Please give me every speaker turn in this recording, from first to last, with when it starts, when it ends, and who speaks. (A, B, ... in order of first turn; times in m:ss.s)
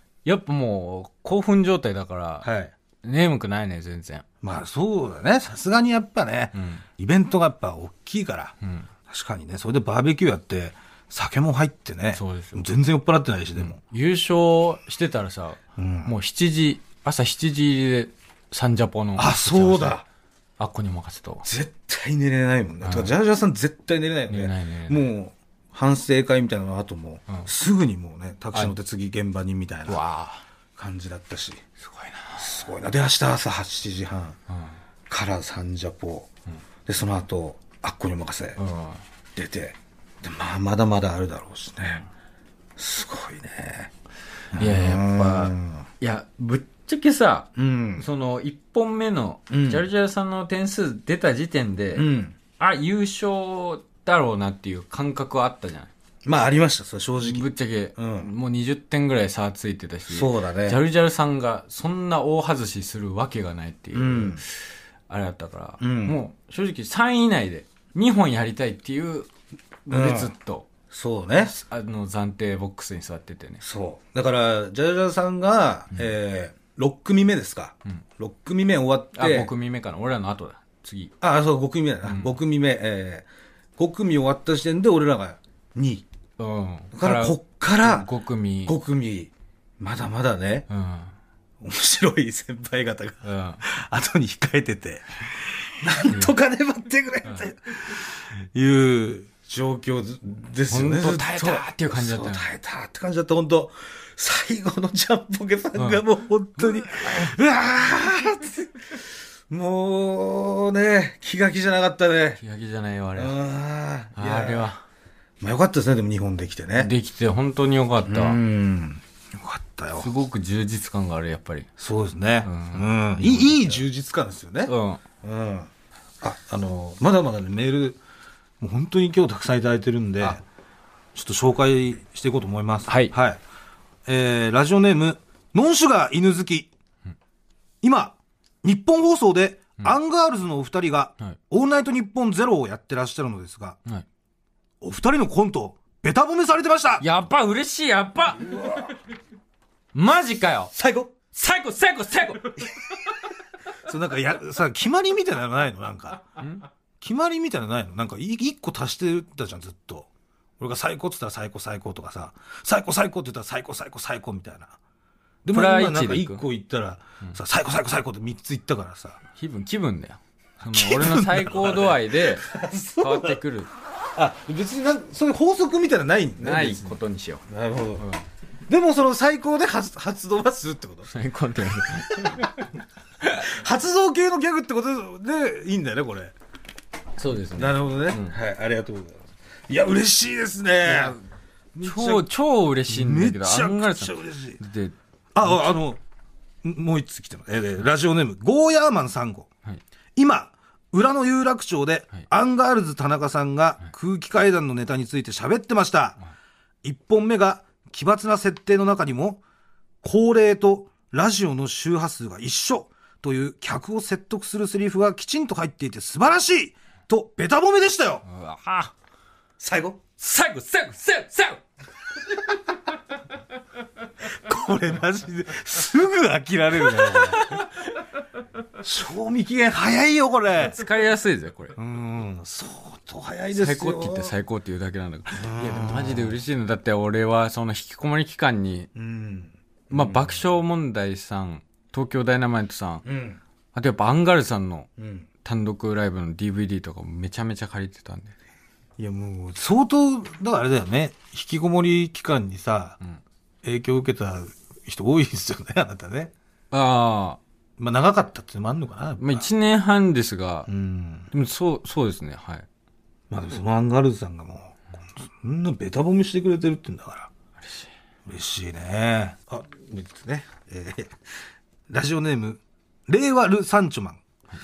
0:00.2-0:02.5 A
0:02.4-0:02.7 B
0:03.0-0:04.2 A
0:04.4-0:08.6 B
0:06.6-0:06.8 A
0:09.1-0:13.8 B
0:12.1-0:12.7 A
0:13.6-0:20.0 A
0:15.8-0:16.2 B
0:19.2-0:20.0 B
0:20.6-0:21.4 A
0:21.4-0:30.0 B
0:22.8-0:23.2 A
0:24.3-0:25.1 A
0:29.9-0:30.4 A
0:30.8-0:31.6 B
0:31.8-0:32.4 A
0:32.4-0:34.4 B
0:35.1-0:36.3 B
0:36.9-0:38.6 B
0:38.6-0:39.0 A
0:39.4-0:42.1 B
0:42.8-0:43.9 B
0:44.5-0:45.9 B
0:44.6-0:52.0 A
0:47.6-0:48.1 B
0:49.5-0:49.9 B
0:52.0-0:52.4 B
0:52.6-0:55.9 A
0:56.2-0:58.3 B
0:57.2-1:09.3 A
1:00.1-1:00.8 B
1:03.9-1:04.4 B
1:05.8-1:06.2 B
1:09.8-1:10.7 A
1:09.9-1:10.3 B
1:10.9-1:11.5 B
1:11.4-1:13.6 A
1:13.6-1:19.5 B
1:19.2-1:21.1 A
1:21.2-1:23.3 B
1:22.1-1:22.4 A
1:23.8-1:26.1 B
1:26.4-1:28.7 A
1:26.9-1:28.1 B
1:28.7-1:30.7 B
1:30.7-1:31.1 A
1:31.6-1:52.4 B
1:33.2-1:33.6 A
1:40.7-1:42.5 A
1:45.8-1:46.0 A
1:46.6-1:47.3 A
1:52.4-1:53.4 A
1:53.2-1:54.7 B
1:54.2-1:54.8 A
1:55.4-1:56.9 B
1:56.8-1:58.4 A
1:58.0-2:00.1 B
2:00.0-2:01.7 A
2:01.8-2:05.7 B
2:02.4-2:03.8 A
2:04.7-2:05.0 A
2:06.2-2:08.0 B
2:08.6-2:10.4 B
2:11.2-2:13.4 B
2:12.9-2:13.1 A
2:14.1-2:16.7 B
2:17.8-2:23.8 B
2:24.8-2:27.0 B
2:27.0-2:28.7 A
2:28.3-2:29.0 B
2:29.9-2:30.7 A
2:30.7-2:31.1 B
2:31.3-2:32.6 A
2:33.8-2:36.2 B
2:37.0-2:44.8 B
2:45.4-2:49.2 B
2:45.5-2:46.4 A
2:49.4-2:52.5 A
2:50.6-2:53.4 B
2:53.0-2:53.7 A
2:54.2-2:57.0 B
2:56.4-2:57.4 A
2:57.5-2:58.1 B
2:58.7-3:01.1 B
3:01.1-3:02.7 A
3:01.9-3:02.5 B
3:03.4-3:06.3 B
3:07.2-3:08.3 A
3:07.6-3:11.2 B
3:10.8-3:11.2 A
3:11.7-3:12.3 B
3:11.8-3:15.8 A
3:12.8-3:14.6 B
3:15.3-3:16.0 B
3:16.6-3:19.5 B
3:20.2-3:26.2 B
3:26.8-3:29.4 B
3:30.0-3:38.2 B
3:38.3-3:38.9 A
3:39.6-3:40.0 B
3:40.2-3:41.6 A
3:44.2-3:47.6 B
3:47.0-3:47.7 A
3:48.8-3:50.8 B
3:50.6-3:51.8 A
3:51.8-3:54.4 B
3:53.5-3:58.9 A
3:55.4-3:56.4 B
3:59.0-4:00.4 B
3:59.9-4:03.0 A
4:03.0-4:03.4 B
4:03.7-4:04.9 A
4:05.0-4:05.3 B
4:05.4-4:08.4 A
4:09.0-4:13.0 B
4:13.6-4:16.3 B
4:16.7-4:17.4 A
4:17.8-4:19.5 B
4:19.2-4:20.7 A
4:20.7-4:21.3 B
4:21.3-4:22.7 A
4:23.3-4:27.3 B
4:27.6-4:27.9 A
4:28.3-4:31.2 B
4:31.9-4:34.2 B